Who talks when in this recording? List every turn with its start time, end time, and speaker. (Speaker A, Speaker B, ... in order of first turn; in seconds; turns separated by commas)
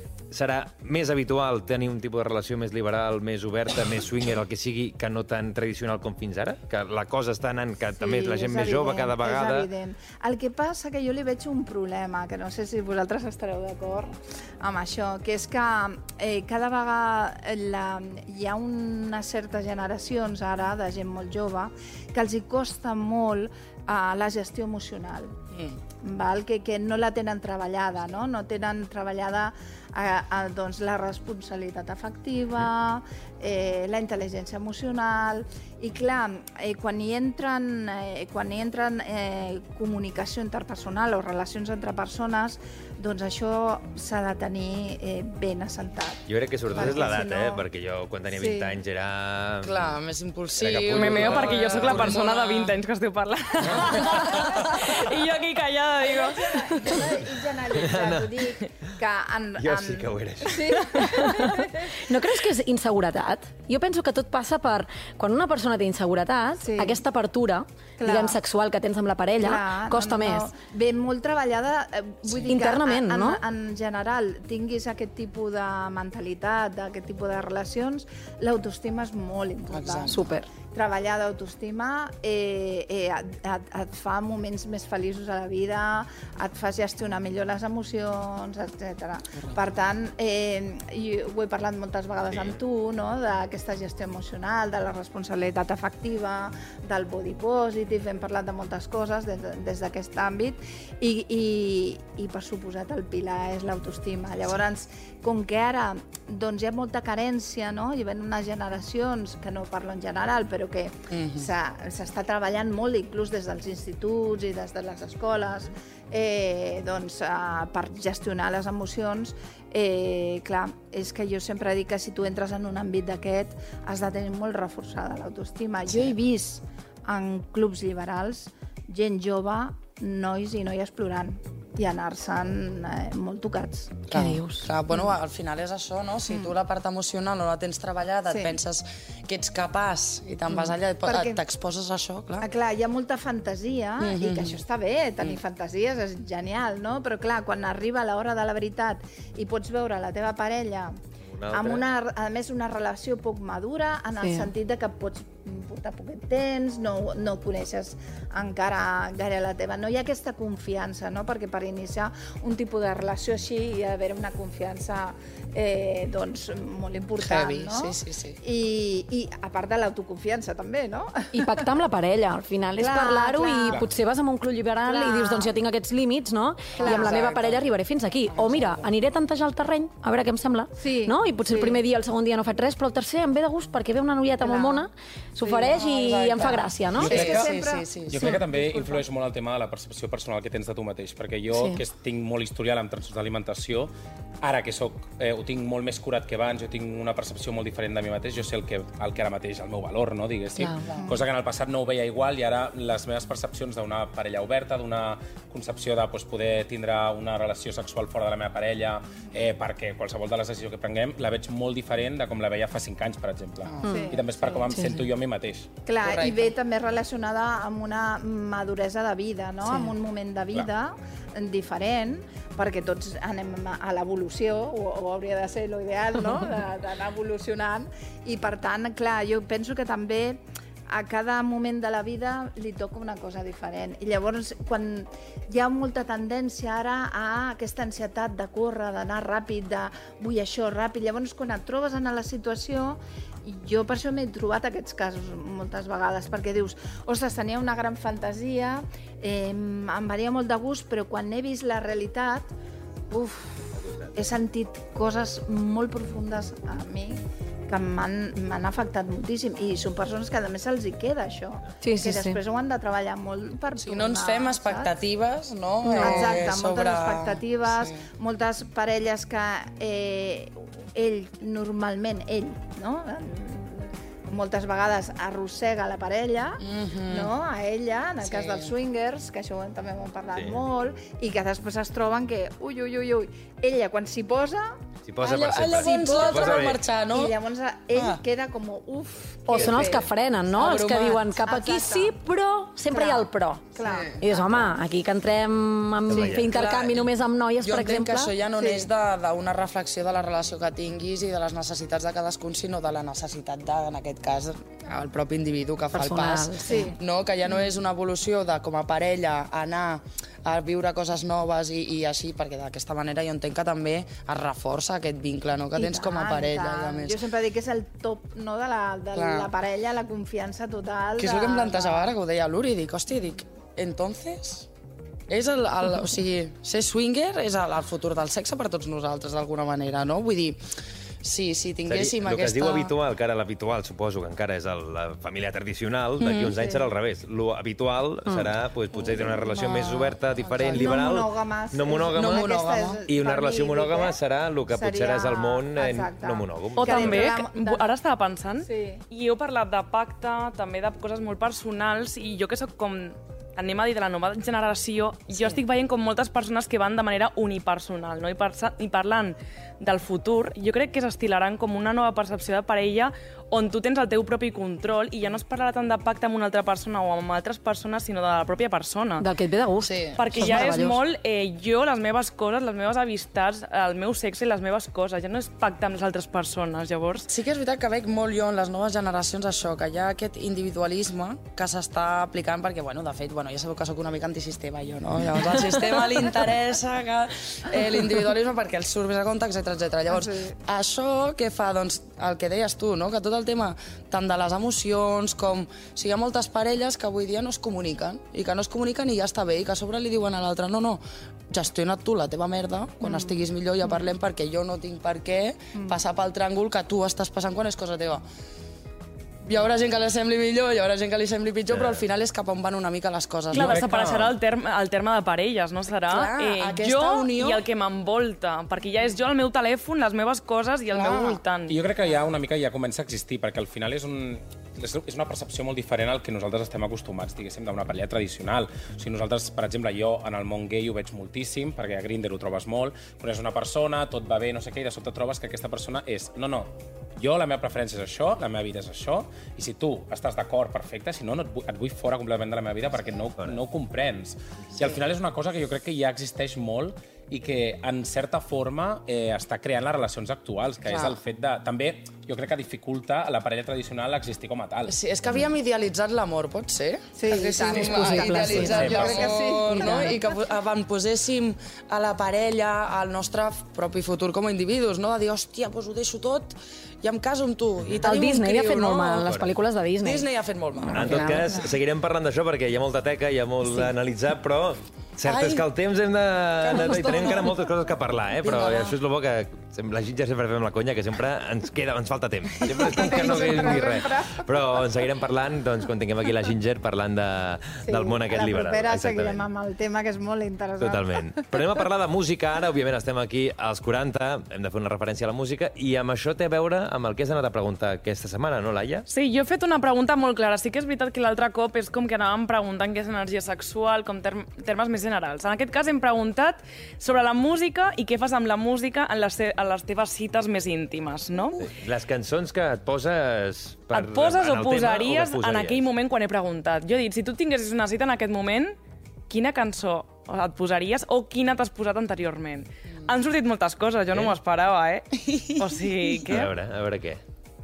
Speaker A: 0.3-9.7, Speaker B: 8.0-25.3, Speaker B: 26.0-47.6, Speaker A: 46.3-49.9, Speaker B: 48.4-48.7, Speaker C: 49.6-52.7, Speaker A: 50.6-52.2, Speaker D: 50.9-56.7, Speaker C: 53.8-54.2, Speaker B: 56.0-62.1, Speaker A: 57.7-58.3, Speaker A: 59.6-60.8, Speaker E: 61.0-70.5, Speaker B: 66.6-67.0, Speaker B: 68.0-68.4, Speaker B: 69.4-134.1, Speaker E: 72.5-73.4, Speaker C: 79.7-80.2, Speaker E: 80.1-80.5, Speaker A: 92.3-92.6, Speaker C: 111.1-111.5, Speaker C: 134.1-142.4, Speaker E: 134.1-134.7, Speaker B: 134.9-135.2, Speaker B: 136.3-136.5, Speaker B: 138.3-138.6, Speaker B: 141.0-141.4, Speaker B: 142.4-151.0, Speaker C: 144.0-144.6, Speaker A: 151.2-151.8, Speaker B: 151.5-171.5, Speaker E: 154.2-154.5, Speaker C: 167.2-168.4, Speaker E: 171.3-187.2, Speaker B: 172.8-173.8, Speaker B: 174.9-175.5, Speaker B: 176.8-177.2, Speaker C: 176.8-177.7, Speaker C: 178.3-178.9, Speaker B: 180.8-181.8, Speaker B: 184.4-184.9, Speaker C: 185.4-188.3, Speaker B: 187.0-189.0, Speaker F: 187.1-187.5, Speaker F: 188.1-193.9, Speaker E: 191.5-191.8, Speaker F: 194.4-215.7, Speaker E: 200.6-200.8, Speaker B: 200.9-201.2, Speaker C: 213.7-213.9, Speaker E: 213.8-214.1, Speaker B: 213.8-214.7, Speaker E: 214.7-215.1, Speaker B: 215.8-252.5, Speaker C: 216.0-216.5, Speaker E: 219.7-219.9, Speaker B: 253.1-264.9, Speaker E: 261.8-262.4, Speaker C: 263.8-268.0, Speaker E: 265.8-266.4, Speaker B: 265.9-284.8, Speaker C: 276.6-277.3, Speaker C: 278.2-278.7, Speaker A: 280.3-280.6, Speaker A: 285.0-286.8, Speaker C: 285.2-287.4, Speaker B: 285.8-290.1, Speaker C: 287.9-288.2, Speaker E: 289.5-298.3, Speaker C: 290.6-291.2, Speaker B: 291.3-292.2, Speaker B: 292.9-294.8, Speaker C: 293.8-294.1, Speaker A: 296.1-296.7, Speaker C: 296.5-297.1, Speaker C: 297.6-317.2, Speaker B: 298.5-298.9, Speaker E: 305.9-306.9, Speaker B: 306.6-307.0, Speaker B: 315.8-322.1, Speaker C: 319.1-319.5, Speaker C: 321.2-324.7, Speaker C: 325.3-330.6, Speaker C: 331.2-332.9, Speaker A: 331.9-342.5, Speaker C: 336.2-336.6, Speaker B: 336.6-336.8, Speaker C: 339.0-341.0, Speaker B: 340.7-347.9, Speaker C: 342.1-343.0, Speaker A: 343.1-347.2, Speaker D: 346.8-369.2, Speaker B: 348.6-349.0, Speaker E: 369.2-371.0, Speaker C: 369.8-370.5, Speaker D: 370.1-377.3, Speaker C: 377.3-408.2, Speaker B: 390.1-390.5, Speaker B: 403.0-404.0, Speaker B: 405.8-406.0, Speaker C: 409.4-414.2, Speaker A: 411.7-412.0, Speaker F: 413.5-414.3, Speaker D: 413.5-421.8, Speaker C: 416.1-417.6, Speaker C: 420.9-421.4, Speaker F: 421.7-454.9, Speaker C: 450.9-451.2, Speaker C: 454.9-469.3, Speaker B: 457.1-460.4, Speaker E: 457.6-458.9, Speaker F: 458.6-459.4, Speaker E: 468.0-470.3, Speaker A: 469.2-469.5, Speaker C: 470.0-471.4, Speaker E: 470.8-471.5, Speaker A: 470.9-489.4, Speaker C: 475.2-475.6, Speaker C: 476.6-477.5, Speaker C: 478.4-478.9, Speaker B: 482.7-484.9, Speaker B: 487.8-491.4, Speaker A: 490.8-499.1, Speaker D: 499.1-511.6, Speaker A: 511.6-515.8, Speaker D: 513.9-518.8, Speaker D: 519.3-526.5, Speaker C: 525.2-525.7, Speaker A: 526.2-527.2